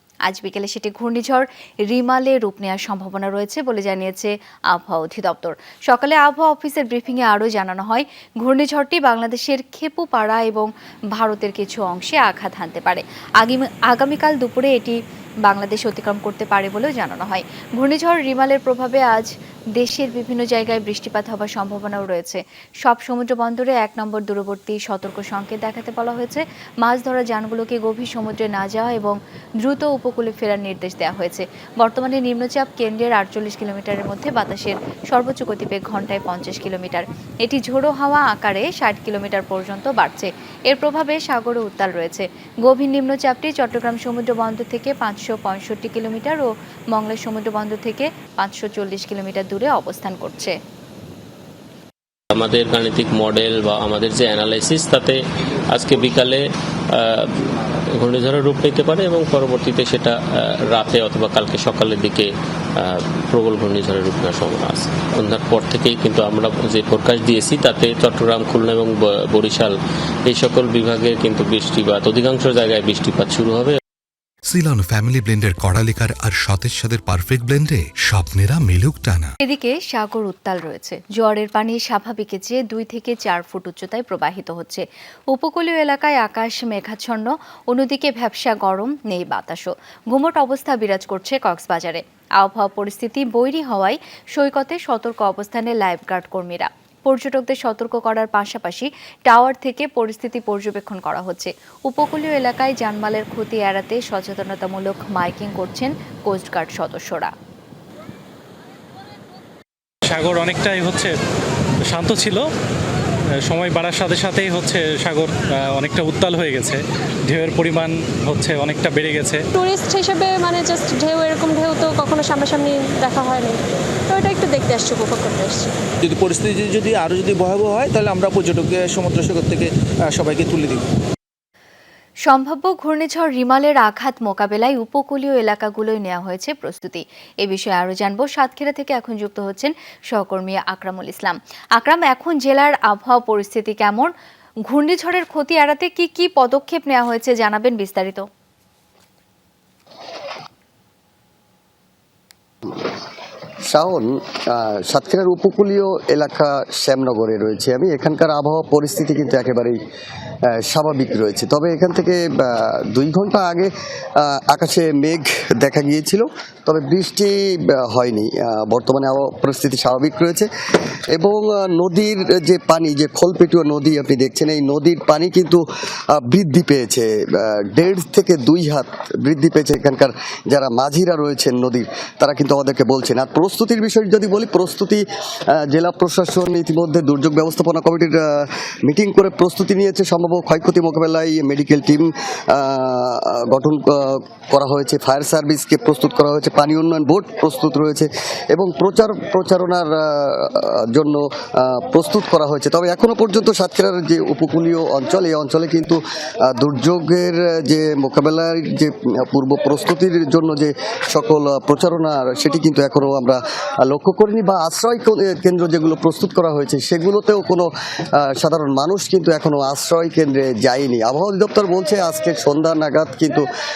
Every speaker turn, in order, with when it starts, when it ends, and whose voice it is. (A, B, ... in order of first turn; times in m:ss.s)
0:00.2-0:50.6 A
0:52.3-1:09.7 B
1:10.3-1:13.8 B
1:14.4-1:19.3 C
1:19.4-1:47.3 A
1:50.1-1:51.1 D
1:51.8-1:52.4 D
1:53.4-1:59.4 D
1:59.5-2:05.7 E
2:06.0-2:10.8 F
2:12.3-2:24.1 A
2:24.7-2:28.2 A
2:33.7-2:39.8 G
2:40.4-2:50.5 G
2:51.1-3:43.4 G